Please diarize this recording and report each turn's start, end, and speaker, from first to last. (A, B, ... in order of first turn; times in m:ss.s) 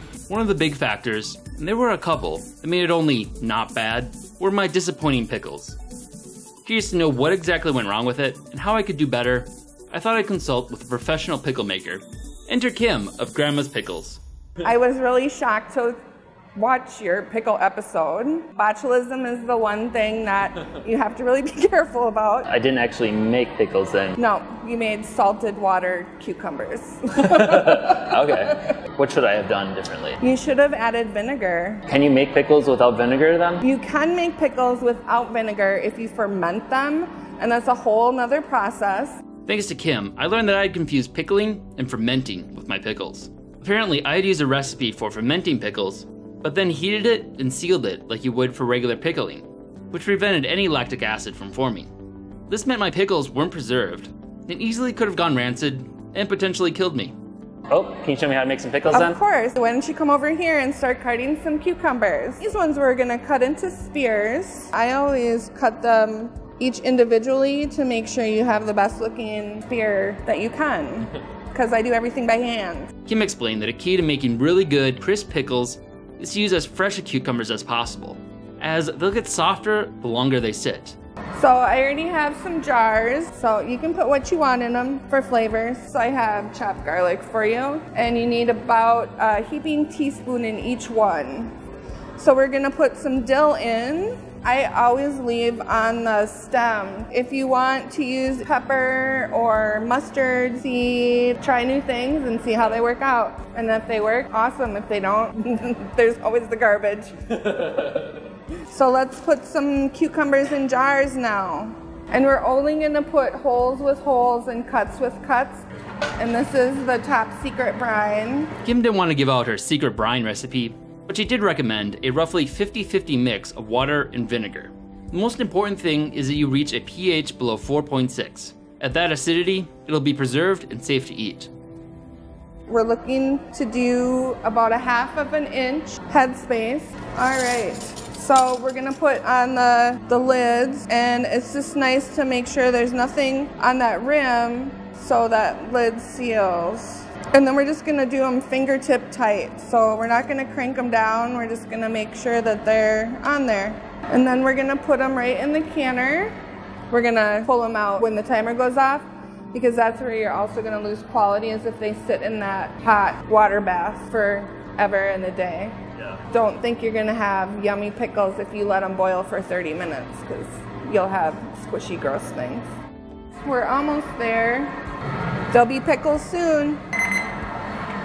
0:00.3-0:05.8 A
0:06.6-0:14.2 A
0:14.6-0:16.0 B
0:16.5-0:22.5 B
0:22.5-0:24.1 C
0:24.1-0:28.6 B
0:27.6-0:30.2 C
0:30.2-0:31.8 B
0:31.9-0:33.6 C
0:33.6-0:39.2 B
0:39.5-0:51.9 A
0:52.5-0:57.1 A
0:57.7-0:59.2 C
0:58.9-1:12.9 B
1:13.1-1:21.0 A
1:21.3-1:31.5 B
1:32.2-1:47.8 B
1:48.7-1:55.6 B
1:56.2-1:58.5 B
1:58.6-2:11.5 A
2:12.7-2:36.4 B
2:36.9-2:45.8 B
2:46.3-2:52.7 B
2:53.3-2:54.8 B
2:55.5-2:56.8 B